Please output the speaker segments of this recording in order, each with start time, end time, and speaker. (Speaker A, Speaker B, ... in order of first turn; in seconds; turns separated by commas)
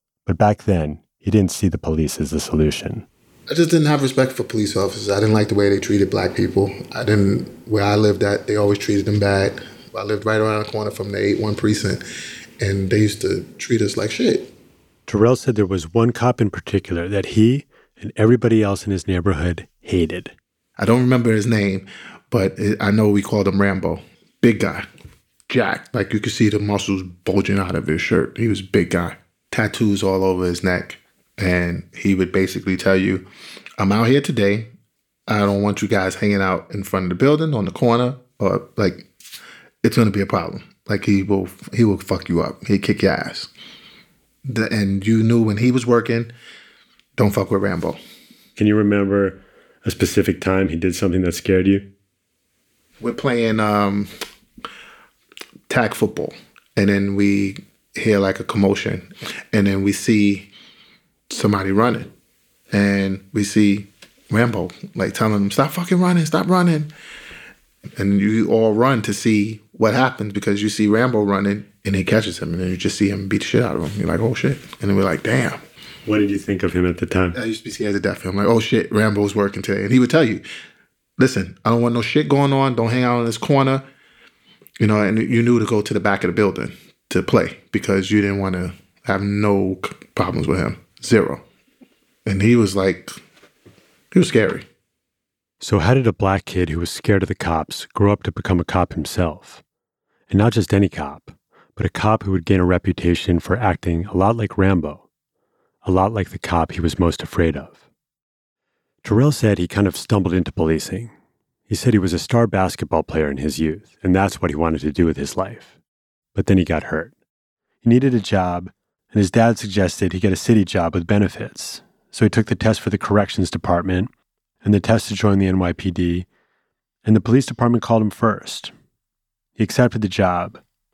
Speaker A: 0.2-3.0, Speaker B: 3.5-12.0, Speaker B: 12.6-14.5, Speaker A: 15.1-20.3, Speaker B: 20.8-24.9, Speaker B: 25.5-33.2, Speaker B: 33.8-34.7, Speaker B: 35.3-39.1, Speaker B: 39.8-43.5, Speaker B: 44.5-46.3, Speaker B: 47.2-48.0, Speaker A: 48.5-51.9, Speaker B: 53.0-54.1, Speaker B: 55.7-60.5, Speaker B: 61.3-62.1, Speaker B: 62.7-66.9, Speaker B: 68.0-75.6, Speaker A: 76.0-77.3, Speaker B: 77.3-80.4, Speaker B: 81.2-83.8, Speaker B: 84.8-91.4, Speaker B: 92.2-93.2, Speaker B: 94.1-94.7, Speaker A: 95.6-99.6, Speaker A: 100.3-105.0, Speaker A: 105.8-107.8, Speaker A: 109.0-111.1, Speaker A: 111.7-115.8, Speaker A: 116.3-117.1, Speaker A: 117.8-124.1, Speaker A: 124.6-126.3, Speaker A: 127.0-128.7, Speaker A: 129.6-130.6